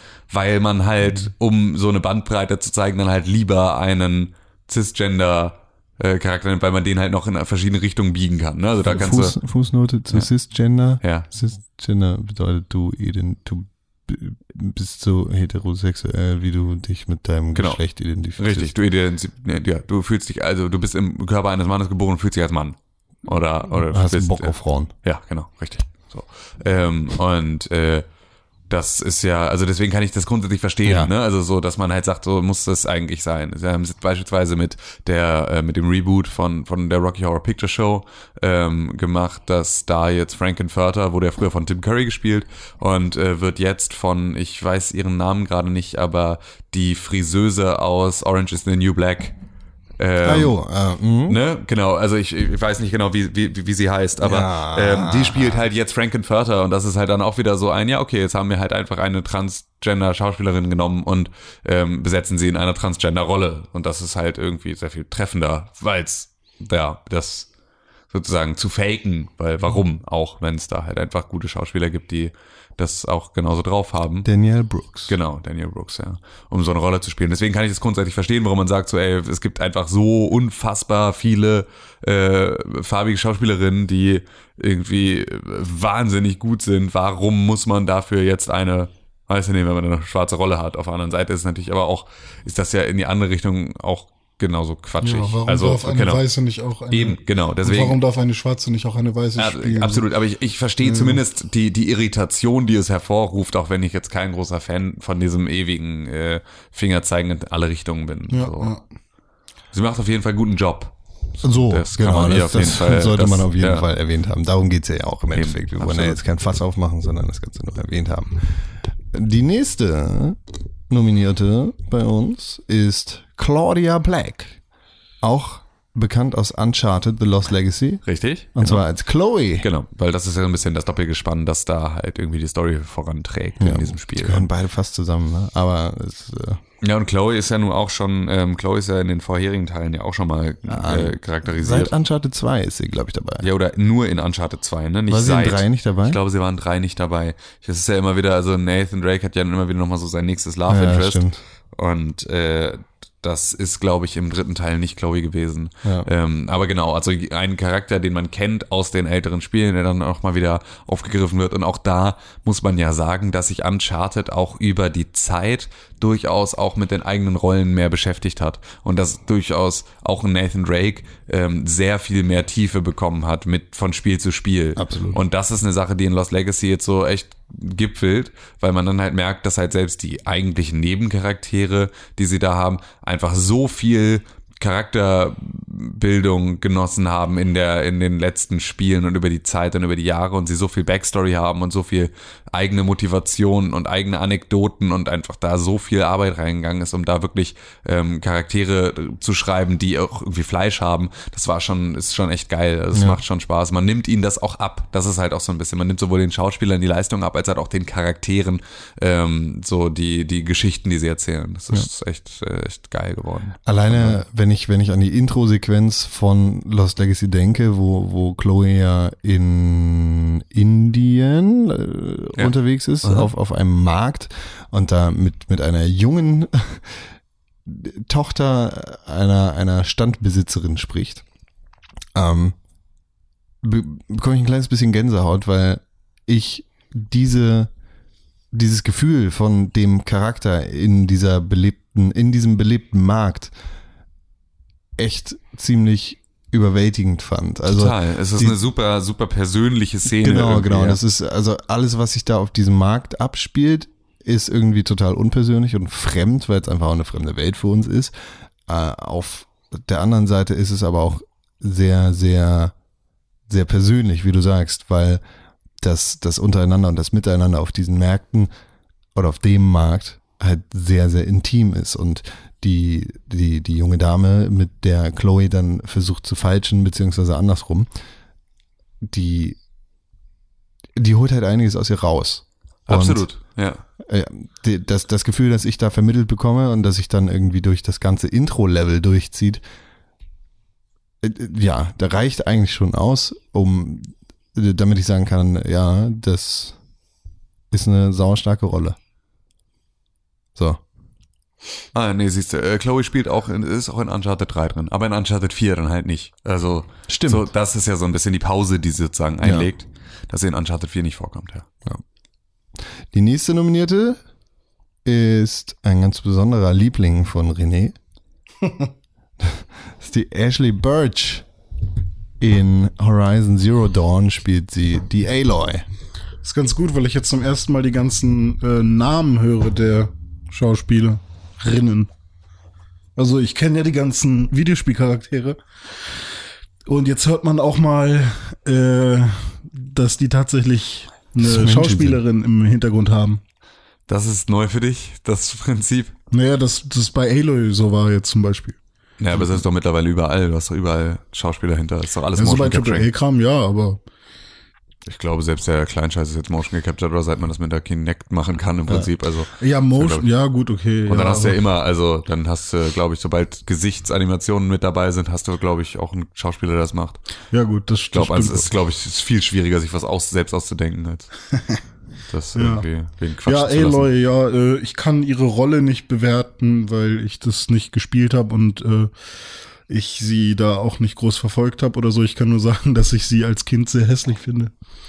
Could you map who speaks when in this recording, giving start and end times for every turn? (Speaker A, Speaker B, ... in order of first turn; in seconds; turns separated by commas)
Speaker A: 0.3-9.3, Speaker B: 8.8-18.7, Speaker A: 11.0-11.3, Speaker A: 17.5-17.8, Speaker A: 18.4-28.0, Speaker B: 23.8-24.9, Speaker A: 28.7-49.3, Speaker B: 30.8-31.1, Speaker A: 50.0-50.5, Speaker B: 50.2-51.4, Speaker A: 51.3-67.5, Speaker B: 54.2-55.6, Speaker A: 68.1-74.3, Speaker B: 74.2-75.1, Speaker A: 75.1-96.2, Speaker C: 95.0-100.0, Speaker A: 96.9-98.0, Speaker A: 99.4-108.8, Speaker C: 100.8-101.2, Speaker C: 108.3-108.8, Speaker A: 109.7-110.9, Speaker B: 111.4-118.4, Speaker A: 111.7-113.8, Speaker A: 115.3-116.2, Speaker B: 119.1-124.6, Speaker B: 125.2-129.7, Speaker A: 128.0-128.8, Speaker A: 129.6-134.5, Speaker B: 133.6-136.6, Speaker A: 136.8-141.9, Speaker B: 140.7-143.5, Speaker A: 143.4-214.2, Speaker B: 145.1-146.2, Speaker B: 150.7-151.4, Speaker B: 174.8-175.2, Speaker B: 202.9-203.2, Speaker B: 213.7-227.0, Speaker A: 222.3-223.3, Speaker B: 227.6-231.2, Speaker B: 232.1-232.6, Speaker B: 233.6-237.7, Speaker B: 238.5-243.5, Speaker B: 245.0-248.6, Speaker A: 247.7-251.0, Speaker B: 250.1-258.1, Speaker B: 258.6-262.7, Speaker B: 263.5-265.2, Speaker B: 265.8-268.5, Speaker B: 269.1-277.9, Speaker B: 279.0-279.6, Speaker B: 280.9-289.6, Speaker A: 282.9-283.8, Speaker B: 291.2-296.8, Speaker B: 297.7-299.0, Speaker B: 300.5-300.8, Speaker A: 301.9-311.7, Speaker B: 307.1-307.5, Speaker B: 309.4-309.7, Speaker B: 313.1-314.2, Speaker B: 315.0-318.0, Speaker B: 319.4-321.4, Speaker B: 322.4-325.9, Speaker C: 326.4-332.1, Speaker C: 333.1-336.2, Speaker C: 336.9-343.4, Speaker B: 341.4-342.2, Speaker A: 344.1-346.1, Speaker C: 346.3-348.8, Speaker A: 349.2-353.1, Speaker C: 352.4-354.0, Speaker A: 355.1-360.3, Speaker C: 359.6-361.6, Speaker A: 361.1-367.2, Speaker C: 367.5-368.7, Speaker A: 368.1-371.4, Speaker A: 372.3-374.1, Speaker C: 372.5-372.9, Speaker C: 373.4-379.1, Speaker C: 379.9-384.7